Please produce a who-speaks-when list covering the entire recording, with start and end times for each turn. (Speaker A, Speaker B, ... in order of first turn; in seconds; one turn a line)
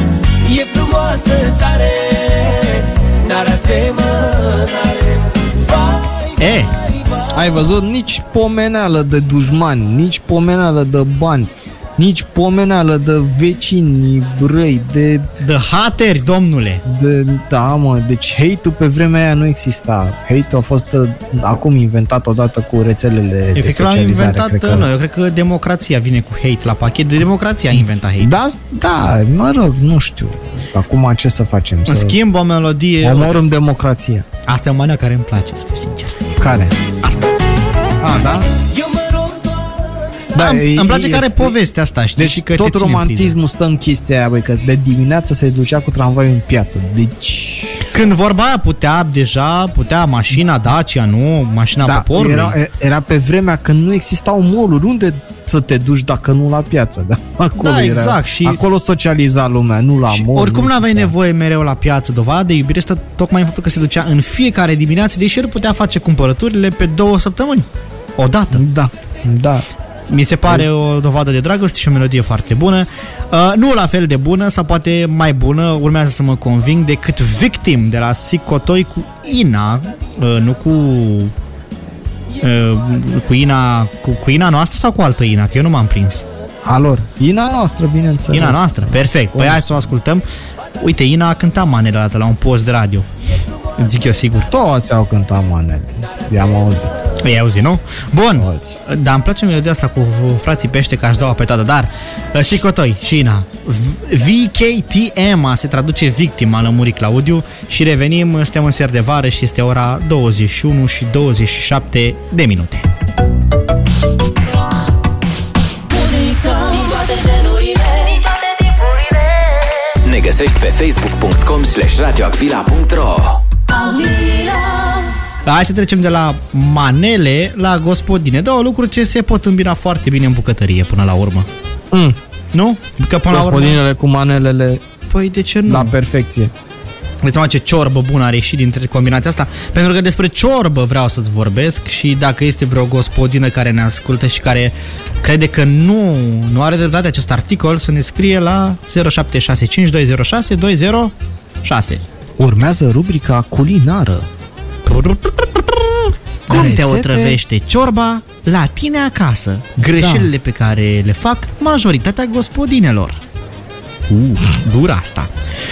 Speaker A: 0.4-7.3
Speaker B: 6.4-6.7
Speaker C: 7.3-15.3
Speaker B: 15.4-16.8
Speaker C: 16.8-24.9
Speaker B: 23.5-28.3
Speaker C: 28.2-32.2
Speaker B: 31.9-33.4
Speaker C: 33.0-34.3
Speaker B: 34.5-36.3
Speaker C: 36.4-36.8
Speaker C: 38.0-38.5
Speaker A: 38.6-40.3
Speaker C: 40.3-41.6
Speaker B: 40.3-43.4
Speaker C: 42.1-47.9
Speaker B: 47.8-52.6
Speaker C: 51.8-61.1
Speaker B: 57.5-58.6
Speaker B: 60.1-68.6
Speaker C: 68.5-69.7
Speaker B: 70.1-81.3
Speaker B: 82.4-86.2
Speaker C: 86.6-89.9
Speaker B: 88.3-90.2
Speaker B: 90.8-93.1
Speaker B: 93.8-94.5
Speaker C: 94.5-96.9
Speaker B: 97.2-112.9
Speaker C: 98.4-98.8
Speaker D: 115.9-119.3
Speaker E: 120.0-123.4
Speaker D: 123.7-125.1
Speaker B: 125.4-131.5
Speaker C: 131.9-132.2
Speaker B: 132.5-133.8
Speaker C: 133.3-134.8
Speaker B: 135.1-135.9
Speaker C: 135.7-136.5
Speaker B: 137.2-151.1
Speaker B: 151.6-152.0
Speaker C: 152.4-154.3
Speaker B: 154.8-163.2
Speaker C: 156.5-157.4
Speaker C: 159.9-160.3
Speaker B: 164.1-165.3